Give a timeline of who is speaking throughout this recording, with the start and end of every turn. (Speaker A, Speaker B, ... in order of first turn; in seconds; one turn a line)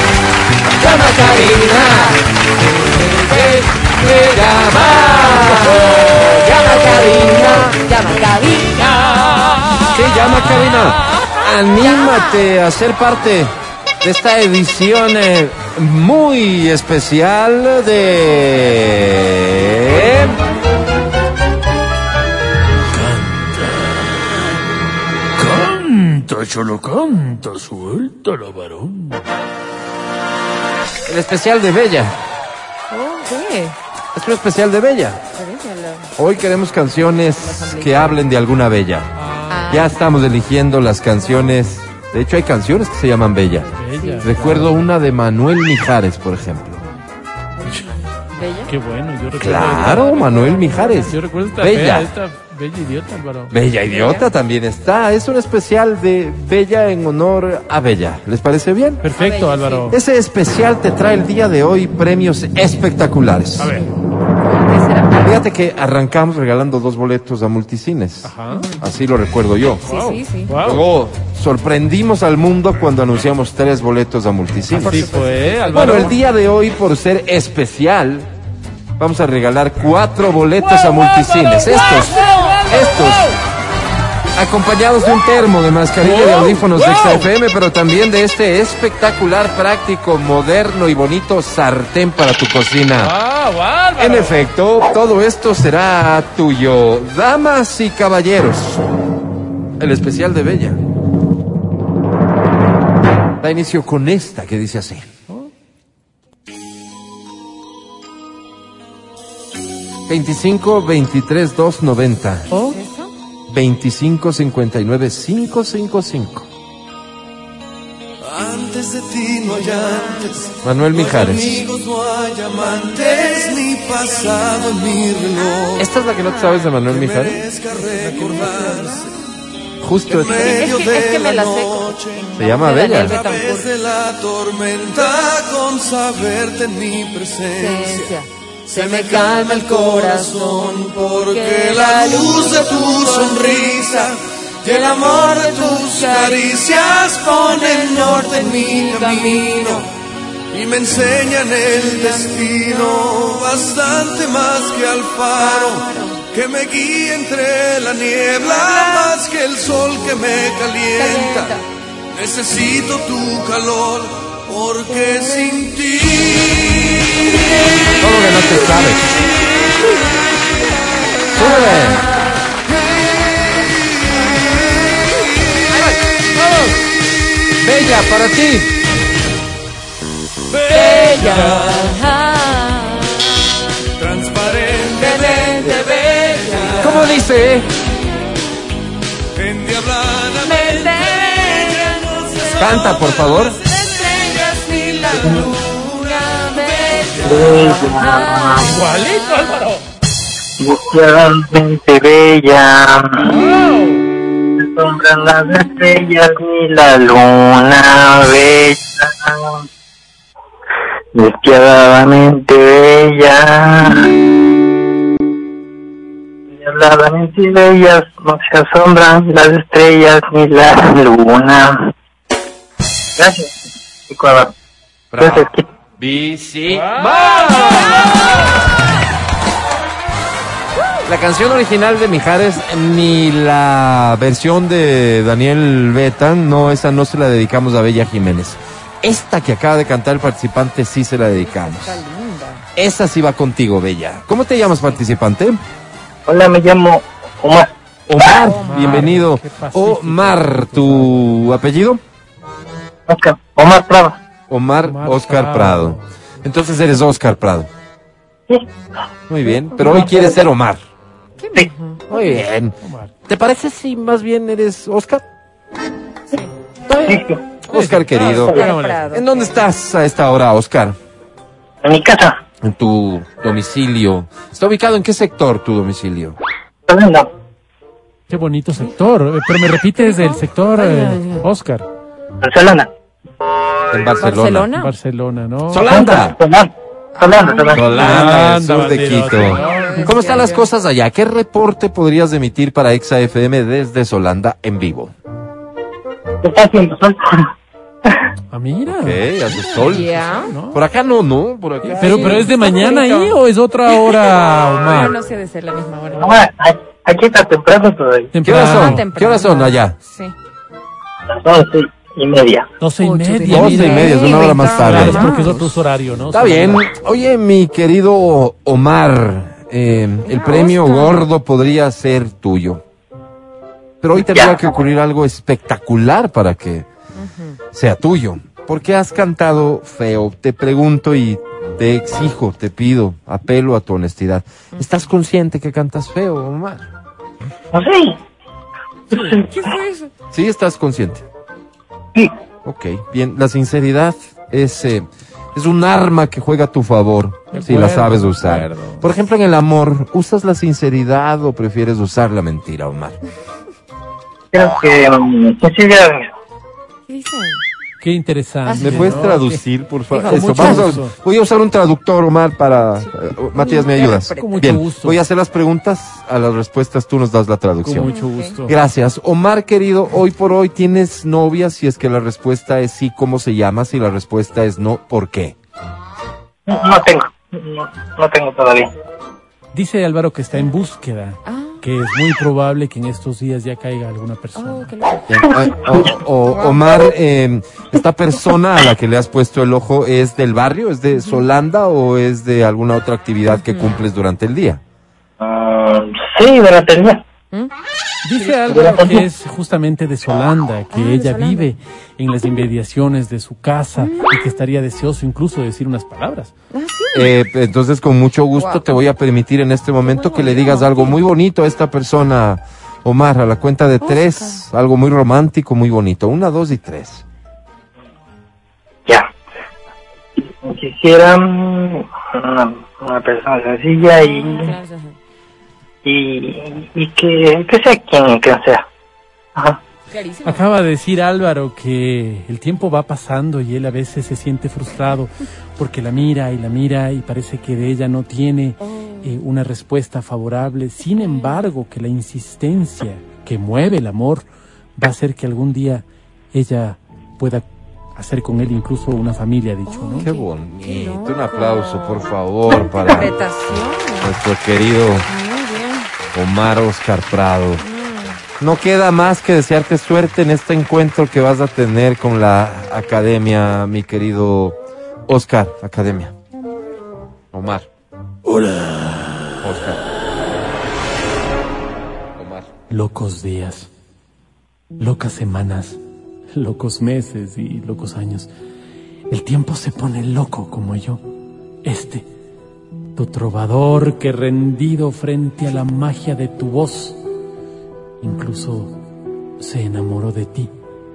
Speaker A: 0.8-2.2
Speaker B: 1.4-2.1
Speaker A: 3.0-7.7
Speaker B: 5.0-9.7
Speaker A: 9.9-20.4
Speaker B: 11.8-12.4
Speaker C: 25.4-29.1
Speaker D: 25.5-25.8
Speaker A: 31.1-32.2
Speaker B: 32.9-33.8
Speaker A: 34.1-35.2
Speaker B: 35.3-36.1
Speaker A: 36.2-39.1
Speaker B: 37.2-38.2
Speaker C: 39.2-39.7
Speaker B: 39.5-40.0
Speaker A: 39.7-43.7
Speaker B: 43.7-44.3
Speaker C: 43.8-44.8
Speaker A: 44.2-46.8
Speaker B: 47.6-48.7
Speaker C: 48.7-53.6
Speaker A: 49.3-52.1
Speaker A: 53.5-59.0
Speaker B: 53.9-54.3
Speaker C: 59.0-60.0
Speaker B: 59.2-59.9
Speaker A: 59.9-63.8
Speaker C: 63.6-63.9
Speaker B: 63.6-63.9
Speaker B: 64.4-65.4
Speaker A: 65.2-75.1
Speaker C: 68.2-68.7
Speaker B: 68.5-68.8
Speaker B: 69.8-70.6
Speaker C: 69.9-70.8
Speaker C: 74.7-76.2
Speaker A: 75.7-78.3
Speaker A: 79.0-83.3
Speaker C: 81.8-83.2
Speaker A: 84.3-93.1
Speaker C: 86.0-87.3
Speaker C: 93.0-94.4
Speaker A: 94.0-98.8
Speaker A: 99.8-100.8
Speaker A: 103.4-105.0
Speaker A: 110.1-112.5
Speaker C: 112.5-112.8
Speaker B: 112.5-113.1
Speaker A: 113.5-116.5
Speaker D: 118.2-125.9
Speaker A: 120.6-121.6
Speaker B: 125.6-126.8
Speaker A: 125.8-127.4
Speaker D: 126.8-129.1
Speaker C: 127.8-128.9
Speaker A: 129.8-130.6
Speaker B: 130.1-133.7
Speaker D: 130.1-138.2
Speaker A: 132.3-133.2
Speaker B: 137.5-143.8
Speaker D: 138.7-149.9
Speaker B: 144.7-146.7
Speaker B: 147.3-149.9
Speaker D: 150.5-167.2
Speaker B: 151.7-153.0
Speaker B: 155.3-156.2
Speaker B: 158.6-159.1
Speaker B: 161.0-161.6
Speaker A: 168.0-169.2
Speaker A: 171.3-172.0
Speaker A: 176.4-176.7
Speaker A: 177.6-178.7
Speaker D: 180.5-182.1
Speaker B: 180.7-183.3
Speaker D: 184.0-186.9
Speaker B: 184.8-187.1
Speaker A: 186.8-187.7
Speaker D: 189.3-193.4
Speaker B: 190.4-192.9
Speaker A: 192.4-193.6
Speaker B: 193.5-198.8
Speaker D: 195.0-195.5
Speaker E: 195.2-195.5
Speaker D: 196.2-197.4
Speaker E: 197.2-198.7
Speaker C: 197.4-197.7
Speaker C: 198.6-199.8
Speaker E: 200.6-203.3
Speaker C: 203.2-204.1
Speaker E: 204.6-209.7
Speaker E: 211.1-214.1
Speaker E: 216.5-221.9
Speaker E: 223.2-223.5
Speaker E: 224.1-224.5
Speaker A: 225.1-228.2
Speaker E: 225.2-225.6
Speaker C: 227.0-227.7
Speaker A: 231.0-242.0
Speaker B: 241.2-242.7
Speaker A: 242.8-245.6
Speaker E: 246.3-247.7
Speaker A: 248.1-252.0
Speaker B: 248.3-249.2
Speaker C: 248.4-251.5
Speaker E: 253.1-254.2
Speaker A: 254.5-257.7
Speaker C: 254.8-256.1
Speaker A: 259.3-260.8
Speaker B: 261.4-262.3
Speaker A: 262.1-262.7
Speaker C: 262.8-263.1
Speaker A: 263.3-265.2
Speaker A: 266.9-270.9
Speaker E: 267.0-267.4
Speaker C: 267.7-269.2
Speaker E: 268.2-268.7
Speaker B: 268.5-269.4
Speaker E: 271.8-272.4
Speaker A: 272.6-276.4
Speaker E: 276.9-277.3
Speaker C: 278.3-281.9
Speaker B: 279.9-281.4
Speaker E: 282.4-282.9
Speaker A: 283.9-284.7
Speaker B: 284.1-284.9
Speaker C: 284.7-285.9
Speaker A: 285.7-286.4
Speaker E: 285.8-288.2
Speaker B: 287.2-288.2
Speaker A: 287.7-295.1
Speaker C: 287.9-290.4
Speaker B: 289.3-290.7
Speaker E: 296.4-297.5
Speaker C: 298.5-300.8
Speaker A: 298.9-300.2
Speaker B: 299.8-300.5
Speaker A: 300.7-302.5
Speaker C: 301.9-305.1
Speaker B: 301.9-303.4
Speaker B: 303.9-306.4
Speaker E: 306.1-308.3
Speaker C: 308.3-309.1
Speaker A: 308.4-309.9
Speaker B: 308.6-310.3
Speaker E: 311.3-312.6
Speaker C: 312.8-316.8
Speaker B: 313.0-315.7
Speaker A: 313.5-315.5
Speaker A: 316.3-322.8
Speaker B: 320.2-321.2
Speaker A: 324.0-326.9
Speaker E: 324.2-324.6
Speaker B: 327.2-327.6
Speaker A: 327.7-336.9
Speaker E: 337.7-338.2
Speaker E: 339.1-339.7
Speaker B: 339.3-340.1
Speaker A: 340.3-341.2
Speaker A: 342.6-353.2
Speaker C: 347.5-349.1
Speaker E: 354.5-356.3
Speaker B: 357.1-357.6
Speaker C: 358.0-361.1
Speaker B: 358.6-359.1
Speaker A: 358.8-368.1
Speaker B: 360.4-360.9
Speaker B: 363.5-364.6
Speaker C: 364.4-365.2
Speaker C: 367.8-368.7
Speaker B: 368.0-368.6
Speaker A: 368.7-375.5
Speaker E: 376.7-378.9
Speaker C: 379.7-384.9
Speaker B: 381.4-381.8
Speaker B: 384.5-385.3
Speaker A: 385.3-394.8
Speaker B: 386.5-386.8
Speaker B: 391.1-391.4
Speaker B: 393.5-394.0
Speaker E: 395.4-397.2
Speaker C: 398.2-406.5
Speaker E: 398.7-399.2
Speaker B: 400.9-401.7
Speaker B: 404.0-404.3
Speaker B: 406.7-407.4
Speaker A: 407.1-417.2
Speaker B: 408.5-409.1
Speaker B: 410.0-411.2
Speaker B: 414.0-414.6
Speaker E: 420.4-424.8
Speaker B: 424.2-425.2
Speaker E: 426.0-428.8
Speaker B: 430.1-430.7
Speaker C: 430.4-447.6
Speaker B: 438.8-439.3
Speaker B: 441.2-441.6
Speaker C: 448.1-450.3
Speaker B: 449.9-454.3
Speaker A: 450.2-453.3
Speaker A: 454.2-455.3
Speaker B: 455.3-456.1
Speaker A: 456.3-457.8
Speaker B: 457.8-458.4
Speaker A: 458.6-466.3
Speaker A: 467.5-467.9
Speaker C: 468.6-469.2
Speaker A: 469.6-470.0
Speaker A: 472.4-472.7
Speaker C: 472.9-473.9
Speaker C: 475.0-476.0
Speaker C: 476.5-478.5
Speaker C: 479.3-481.2
Speaker C: 481.8-482.2
Speaker C: 483.1-487.2
Speaker C: 488.2-488.9
Speaker C: 489.6-490.7